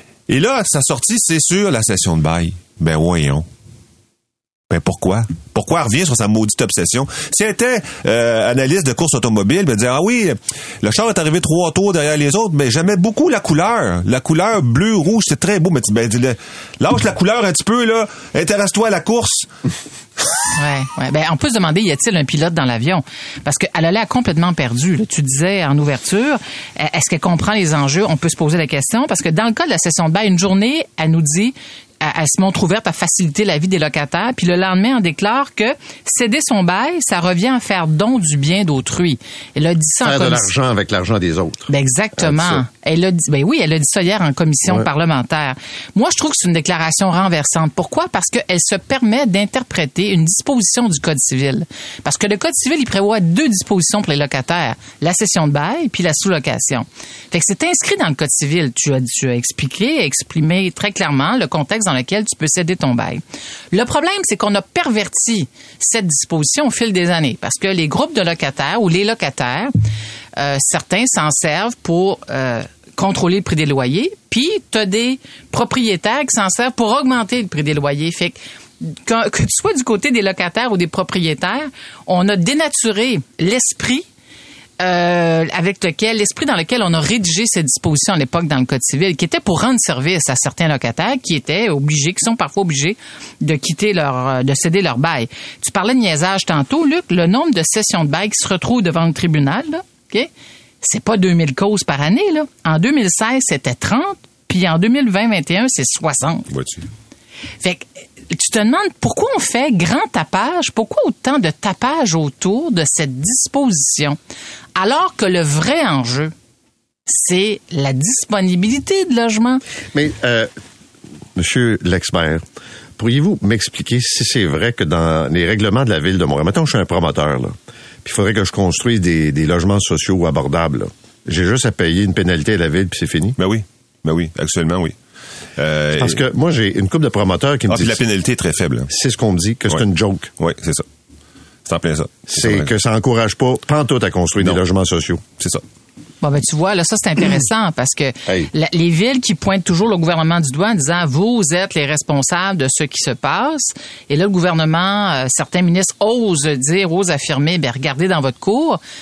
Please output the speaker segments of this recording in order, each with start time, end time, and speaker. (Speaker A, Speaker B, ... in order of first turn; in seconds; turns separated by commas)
Speaker A: 0.3-3.5, Speaker A: 4.7-19.5, Speaker B: 20.6-40.5, Speaker C: 40.0-42.6, Speaker B: 41.7-69.7, Speaker B: 70.4-84.0, Speaker B: 84.8-100.3, Speaker B: 100.8-106.5, Speaker A: 106.5-106.9, Speaker B: 107.6-114.2, Speaker B: 114.8-116.3, Speaker B: 117.1-119.6, Speaker C: 119.9-120.5, Speaker C: 121.4-122.4, Speaker C: 123.0-133.4, Speaker A: 133.4-134.9, Speaker A: 135.6-136.2, Speaker C: 136.0-138.0, Speaker A: 137.7-138.9, Speaker C: 138.9-140.3, Speaker A: 140.4-140.8, Speaker A: 141.7-142.7, Speaker C: 142.3-145.2, Speaker B: 146.2-158.8